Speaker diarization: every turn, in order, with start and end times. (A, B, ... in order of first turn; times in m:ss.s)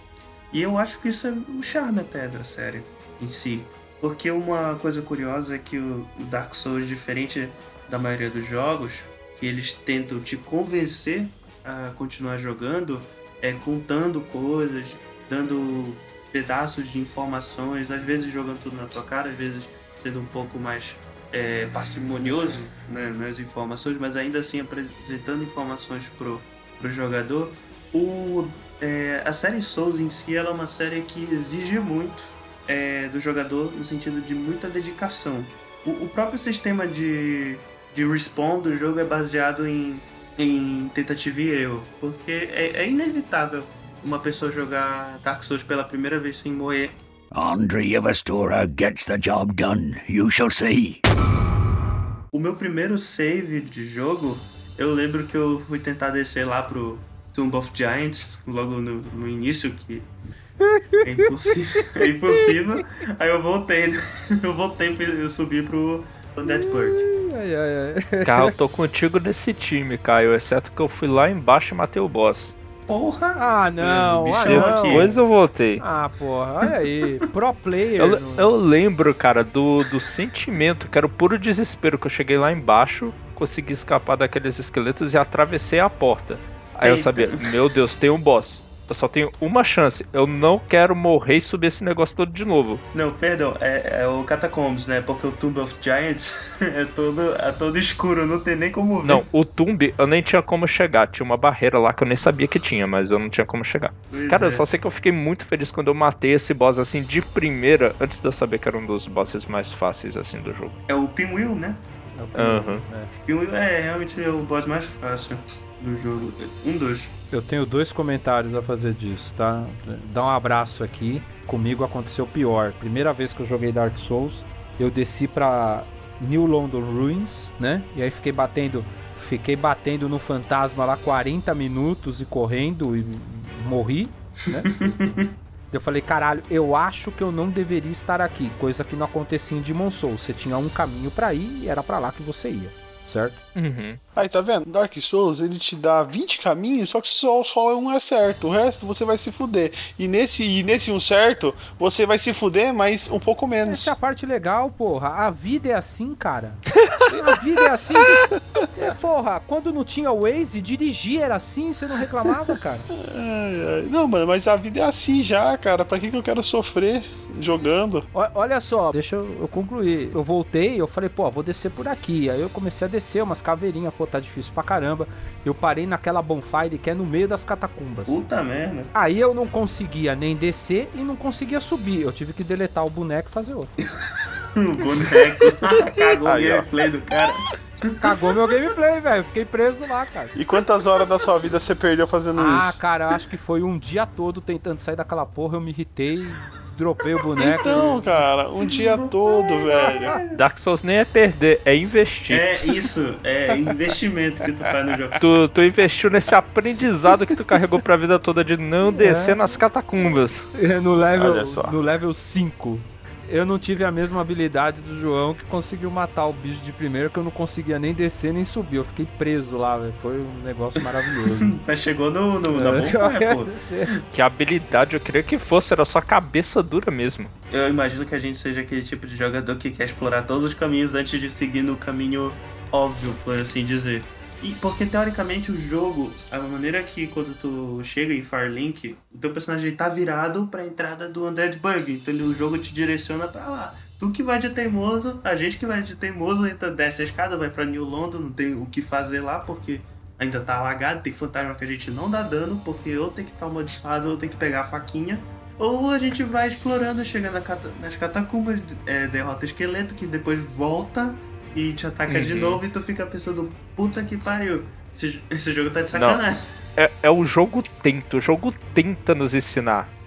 0:00.5-0:47.0 A
0:47.3-0:51.0 B
0:52.3-1:00.1 A
1:00.6-1:02.0 C
1:01.0-1:07.1 A
1:06.4-1:08.6 C
1:08.2-1:12.6 D
1:12.9-1:15.2 A
1:13.4-1:15.1 C
1:14.4-1:15.8 D
1:15.8-1:18.4 C
1:18.0-1:32.8 D
1:26.8-1:27.5 A
1:32.9-1:39.2 A
1:39.0-1:50.8 D
1:44.1-1:44.7 A
1:50.9-1:51.8 A
1:52.2-1:53.1 C
1:52.4-1:52.8 D
1:53.3-1:57.1 A
1:57.3-2:14.7 C
2:14.6-2:15.3 A
2:15.7-2:23.4 C
2:23.6-2:24.0 D
2:24.2-2:34.0 E
2:33.7-2:38.2 C
2:38.7-2:42.9 C
2:42.9-2:48.1 E
2:48.1-2:58.2 C
2:58.1-2:58.9 A
2:58.9-3:03.7 C
3:04.0-3:08.0 A
3:06.3-3:06.7 E
3:08.0-3:10.4 C
3:10.4-3:12.8 E
3:12.3-3:18.0 C
3:17.4-3:20.2 E
3:17.6-3:18.1 A
3:19.6-3:20.4 A
3:20.3-3:22.5 D
3:22.3-3:25.2 A
3:25.2-3:30.5 D
3:28.8-3:29.4 C
3:30.5-3:41.6 C
3:31.2-3:31.8 E
3:40.8-3:44.0 A
3:42.5-3:43.9 C
3:44.1-3:47.3 D
3:47.5-4:26.4 A
4:22.1-4:22.6 D
4:25.9-4:26.2 D
4:26.8-4:29.9 D